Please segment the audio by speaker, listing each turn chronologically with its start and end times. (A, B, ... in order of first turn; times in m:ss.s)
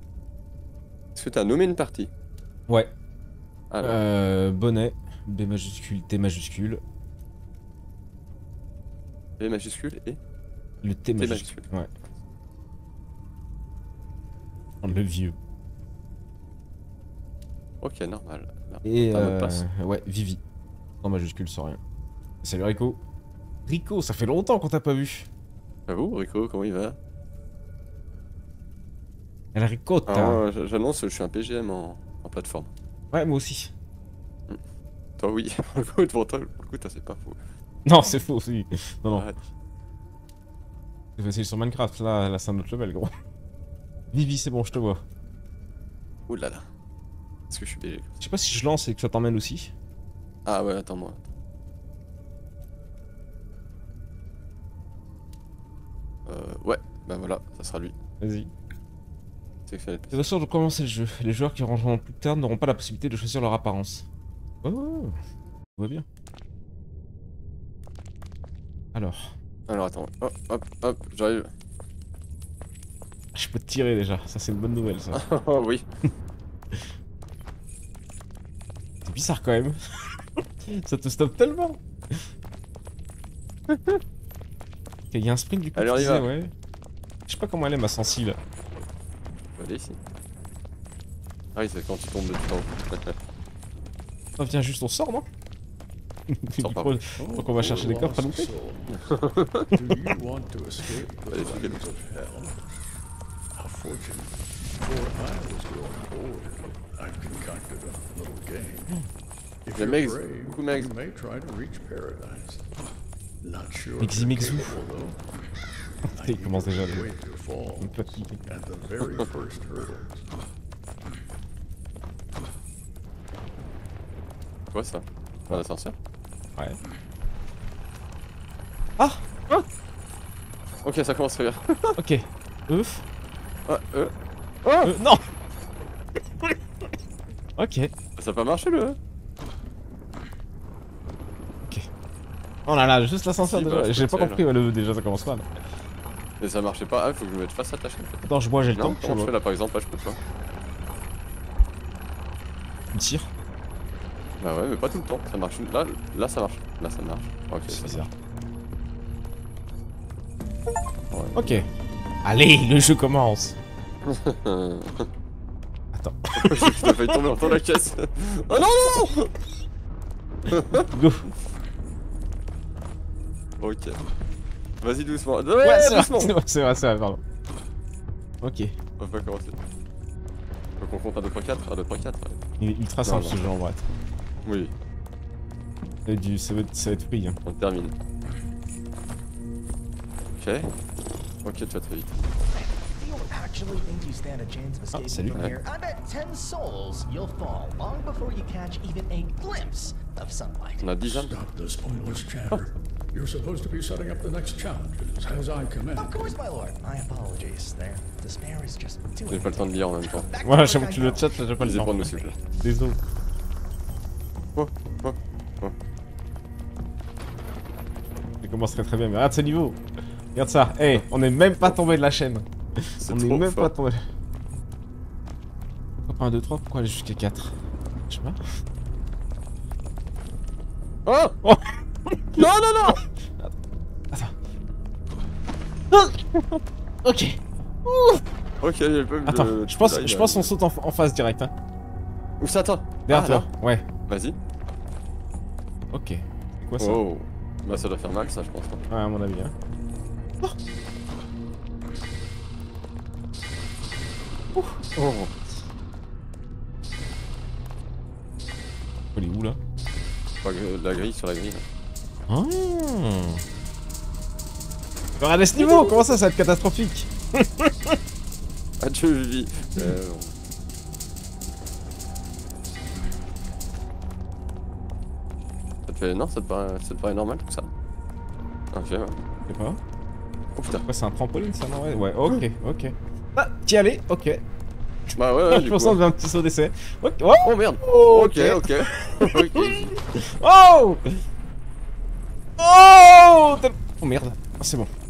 0:01.2-0:02.1 A
0:02.7-0:02.9 B
0:03.7-0:04.0 A
0:03.8-0:06.8 B
0:09.4-0:10.2 A
0:10.8-0:11.9 B
0:11.2-0:11.7 A
0:14.8-0:15.4 B
0:17.8-0:19.6 A
0:18.8-0:20.4 B
0:21.0-0:21.8 B
0:22.4-0:23.0 B
0:23.7-0:25.3 B
0:25.9-0:27.0 A
0:29.5-0:30.4 B
0:30.1-0:32.7 A
0:33.1-0:33.7 B
0:35.2-0:37.4 A
0:37.9-0:39.3 B
0:39.1-0:39.4 A
0:41.2-0:43.1 B
0:44.1-0:45.0 B
0:46.3-0:46.7 A
0:47.5-0:48.1 A
0:48.2-0:49.7 B
0:50.5-0:51.2 A
0:56.3-0:58.0 A
0:58.2-0:58.5 B
0:59.7-1:00.3 A
1:00.1-1:04.0 B
1:04.6-1:05.2 B
1:05.8-1:06.0 B
1:08.9-1:09.3 B
1:09.7-1:11.5 A
1:13.3-1:15.2 B
1:15.1-1:15.8 A
1:19.0-1:22.2 B
1:23.7-1:24.0 B
1:25.1-1:26.5 B
1:25.8-1:26.3 A
1:27.3-1:28.4 B
1:29.6-1:30.0 A
1:31.6-1:33.2 A
1:34.4-1:35.3 B
1:36.3-1:38.5 B
1:36.6-1:37.0 A
1:37.2-1:42.6 C
1:38.9-1:39.7 A
1:41.3-1:41.8 A
1:43.6-1:49.0 C
1:49.6-1:52.6 C
1:49.8-1:50.9 A
1:53.4-1:55.2 C
1:54.0-1:54.8 B
1:56.1-2:00.2 C
1:56.1-1:57.1 B
1:57.8-1:58.4 B
2:04.7-2:06.0 A
2:09.0-2:09.6 B
2:10.8-2:12.0 A
2:12.0-2:13.0 B
2:13.7-2:15.0 A
2:14.9-2:15.2 B
2:17.6-2:17.9 B
2:18.2-2:19.0 A
2:22.7-2:25.5 B
2:23.4-2:24.4 A
2:26.4-2:30.2 A
2:28.3-2:29.3 B
2:32.9-2:33.3 B
2:34.4-2:38.1 A
2:37.7-2:38.1 B
2:41.1-2:41.6 A
2:41.4-2:41.7 B
2:42.2-2:43.6 B
2:44.0-2:45.1 A
2:45.9-2:47.2 B
2:46.3-2:49.3 A
2:50.5-2:50.9 A
2:50.9-2:51.3 B
2:53.6-2:54.0 A
2:54.8-2:56.3 A
2:55.6-2:57.2 B
2:58.4-2:58.7 B
2:59.0-2:59.6 A
3:00.8-3:02.4 A
3:02.6-3:03.8 B
3:03.0-3:03.4 A
3:04.4-3:04.7 A
3:06.1-3:07.4 B
3:07.4-3:07.9 A
3:10.4-3:10.7 A
3:11.4-3:12.2 A
3:12.5-3:20.9 D
3:14.9-3:15.5 B
3:20.8-3:21.3 A
3:21.0-3:26.4 C
3:26.0-3:31.4 D
3:29.3-3:30.3 A
3:30.4-3:33.0 B
3:31.6-3:32.4 A
3:34.6-3:35.8 A
3:38.4-3:39.8 B
3:40.3-3:44.0 B
3:43.0-3:43.7 A
3:46.1-3:47.6 B
3:48.1-3:48.4 B
3:51.1-3:51.4 A
3:51.4-3:52.2 B
3:52.4-3:53.0 A
3:55.9-3:58.2 B
3:58.6-4:00.5 A
3:59.3-4:01.5 B
4:02.4-4:03.5 A
4:03.1-4:03.8 B
4:04.1-4:04.4 A
4:05.9-4:07.0 B
4:06.8-4:08.8 A
4:08.9-4:09.5 B
4:14.5-4:14.8 B
4:15.0-4:15.3 A
4:19.1-4:19.6 B
4:20.4-4:21.6 A
4:22.3-4:23.4 B
4:25.2-4:28.0 B
4:25.6-4:26.2 A
4:28.8-4:30.3 A
4:35.9-4:37.7 A
4:38.7-4:39.2 A
4:39.5-4:39.8 B
4:40.6-4:40.8 A
4:40.8-4:44.4 B
4:45.2-4:46.0 A
4:45.5-4:51.2 B
4:47.4-4:50.0 A
4:52.6-4:54.9 B